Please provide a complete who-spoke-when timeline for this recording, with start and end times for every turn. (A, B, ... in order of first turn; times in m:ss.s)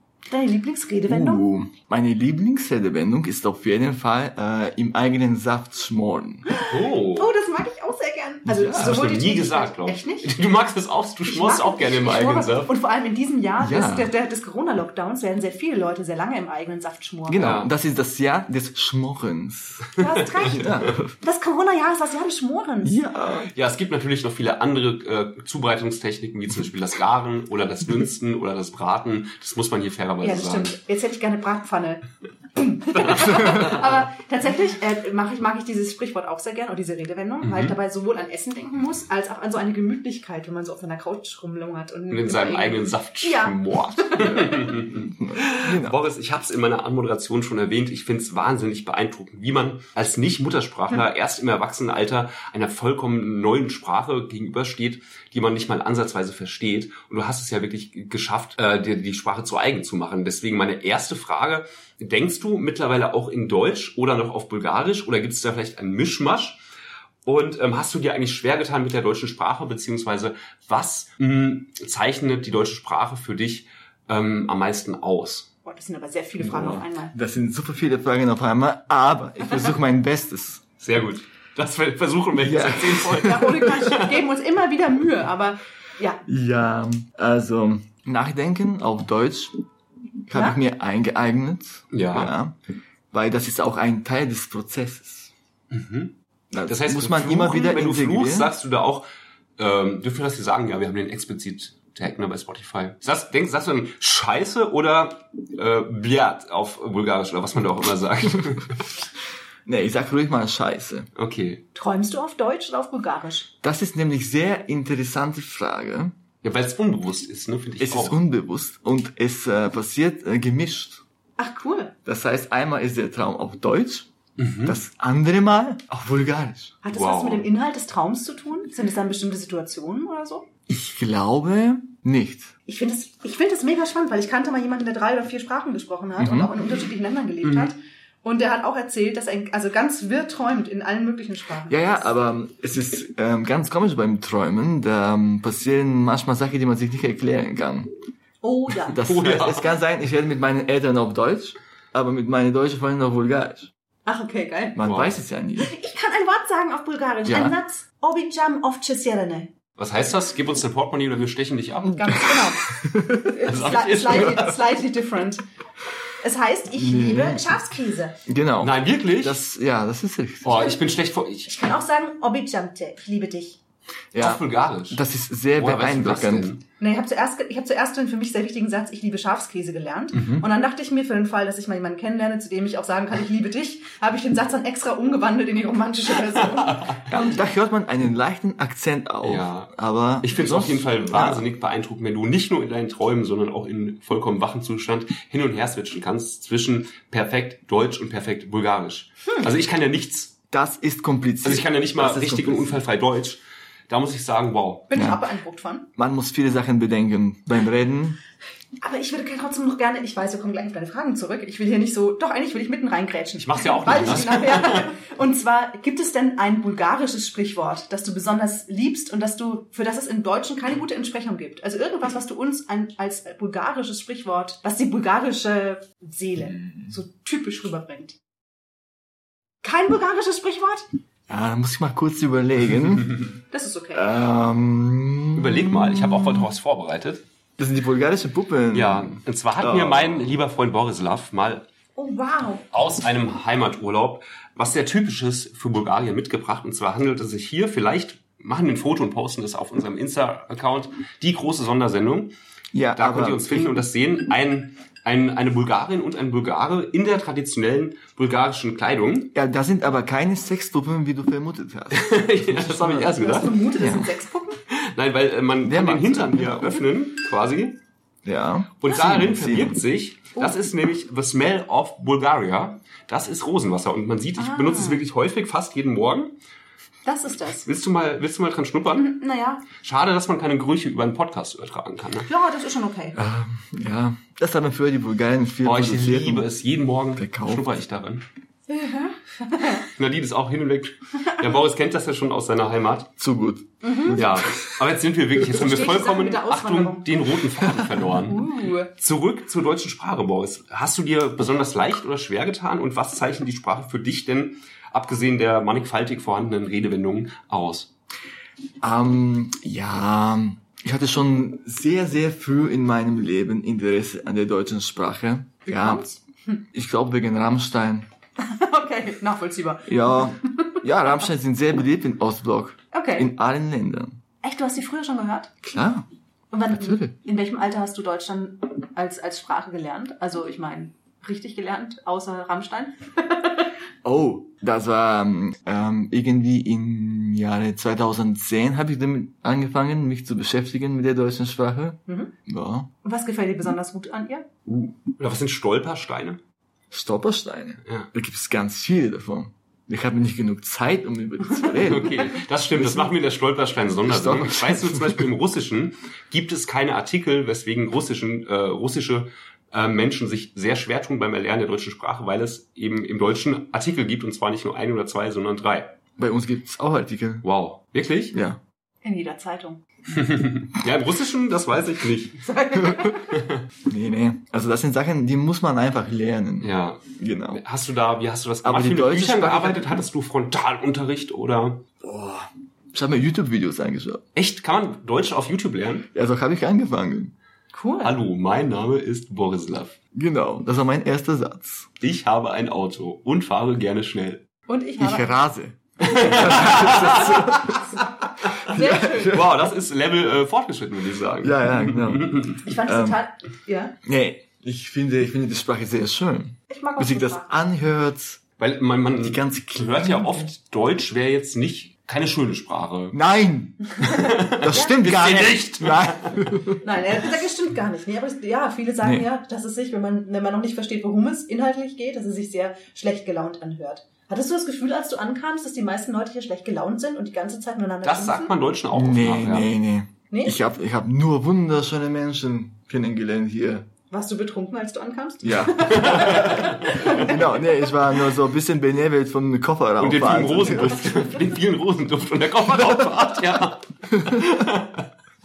0:00.3-0:01.5 A
0:01.1-0:06.4 B
0:06.5-0:10.3 A
0:06.6-0:07.3 C
0:08.4-0:09.0 B
0:08.7-0:12.7 C
0:11.2-0:17.4 A
0:13.6-0:14.1 B
0:17.3-0:21.1 B
0:17.4-0:17.7 C
0:20.0-0:23.0 A
0:20.4-0:20.9 C
0:22.8-0:23.5 B
0:23.5-0:30.7 C
0:30.2-0:32.0 A
0:32.5-0:44.8 A
0:33.0-0:33.8 C
0:37.4-0:37.7 C
0:42.1-1:06.6 C
0:44.2-0:46.0 B
1:07.2-1:15.5 C
1:15.6-1:17.1 A
1:16.4-1:20.6 B
1:20.8-1:24.2 C
1:22.4-1:23.7 B
1:23.2-1:26.2 A
1:26.2-1:29.5 B
1:30.3-1:32.5 B
1:30.3-1:30.6 A
1:31.9-1:32.3 C
1:33.1-1:35.3 B
1:35.7-1:36.1 C
1:36.5-1:38.5 B
1:36.7-1:39.1 C
1:39.6-1:48.9 C
1:49.6-1:51.1 B
1:51.2-1:51.6 C
1:51.7-1:53.5 A
1:53.6-1:56.1 B
1:56.4-1:58.2 C
1:57.8-2:01.0 B
2:01.4-2:01.9 A
2:02.0-2:04.1 B
2:04.4-2:04.8 C
2:04.6-2:06.8 B
2:06.8-2:10.5 A
2:06.9-2:07.4 C
2:10.7-2:12.5 B
2:12.7-2:22.1 A
2:16.2-2:16.5 B
2:21.7-2:27.9 B
2:28.4-2:29.0 A
2:28.9-2:33.7 B
2:29.0-2:29.7 C
2:34.0-2:34.8 A
2:34.8-2:35.7 B
2:34.8-2:35.2 C
2:35.6-2:39.5 A
2:37.2-2:37.5 B
2:39.8-2:42.4 C
2:42.0-2:42.7 A
2:42.7-2:43.3 B
2:43.2-2:45.4 A
2:43.4-2:44.6 C
2:46.2-2:48.2 A
2:46.7-2:47.5 B
2:48.3-2:50.7 B
2:48.6-2:49.4 C
2:50.4-2:51.5 C
2:51.4-2:53.6 A
2:54.1-2:56.5 B
2:54.2-2:55.0 C
2:55.6-2:56.6 C
2:56.8-3:07.4 A
3:06.5-3:07.0 C
3:07.1-3:11.4 B
3:09.2-3:09.7 C
3:10.2-3:20.3 C
3:20.5-3:22.8 B
3:21.4-3:24.9 C
3:24.9-3:25.9 A
3:24.9-3:25.2 B
3:25.9-3:28.2 B
3:28.8-3:48.2 A
3:33.4-3:34.9 C
3:49.6-3:50.8 A
3:51.3-3:53.3 B
3:53.5-3:54.0 A
3:53.9-3:56.4 B
3:55.3-3:57.2 C
3:57.6-4:00.3 B
3:58.7-4:01.6 C
4:02.0-4:02.6 A
4:02.7-4:12.3 C
4:12.7-4:13.8 B
4:12.9-4:19.3 C
4:19.3-4:24.1 B
4:21.9-4:23.5 C
4:23.1-4:24.6 A
4:24.7-4:27.8 C
4:25.6-4:26.8 B
4:28.2-4:29.8 B
4:28.8-4:36.4 C
4:30.4-4:30.6 A
4:34.4-4:35.0 A
4:37.0-4:37.7 A
4:37.6-4:39.1 C
4:38.9-4:39.6 A
4:39.8-4:42.3 C
4:42.2-4:43.2 A
4:43.1-4:46.5 B
4:45.6-4:48.2 C
4:47.2-4:47.6 B
4:48.7-4:49.8 A
4:49.8-4:53.1 C
4:53.2-4:54.8 B
4:53.8-4:54.2 A
4:54.1-5:07.9 C
4:55.5-4:57.0 A
4:58.2-4:58.9 A
5:08.8-5:16.0 B
5:15.6-5:16.6 A
5:16.7-5:18.0 B
5:18.4-5:20.7 A
5:19.9-5:24.2 B
5:22.9-5:23.3 A
5:24.4-5:25.6 A
5:25.6-5:26.0 B
5:26.5-5:33.6 A
5:26.7-5:27.1 B
5:34.0-5:42.9 B
5:42.1-5:42.3 A
5:43.0-5:44.4 A
5:44.6-5:45.0 B
5:45.2-5:46.4 C
5:46.9-5:53.1 B
5:51.8-6:05.9 C
5:54.1-5:55.2 B
6:06.2-6:07.4 B
6:07.4-6:08.3 C
6:08.3-6:08.6 B
6:09.0-6:09.8 A
6:10.1-6:12.4 C
6:12.4-6:13.3 A
6:13.3-6:13.6 C
6:13.8-6:17.6 B
6:16.6-6:21.8 C
6:18.6-6:20.0 B
6:22.0-6:24.2 B
6:24.3-6:26.1 C
6:26.1-6:27.3 B
6:27.7-6:28.1 A
6:28.0-6:30.0 C
6:30.1-6:31.9 B
6:32.0-6:34.4 C
6:34.7-6:35.3 A
6:35.0-6:39.6 B
6:36.0-6:37.8 C
6:37.7-6:38.0 A
6:38.7-6:39.4 A
6:39.3-6:42.6 C
6:41.4-6:43.2 B
6:42.6-6:44.0 A
6:44.0-6:48.4 B
6:46.7-6:47.5 A
6:48.6-6:53.2 C
6:49.2-6:50.5 B
6:53.1-6:56.8 B
6:54.0-6:55.0 A
6:54.1-6:56.5 C
6:56.8-7:08.5 A
7:08.0-7:09.7 C
7:08.9-7:13.9 B
7:10.3-7:10.6 A
7:14.1-7:17.9 A
7:15.4-7:21.4 B
7:15.9-7:17.0 C
7:20.0-7:25.1 C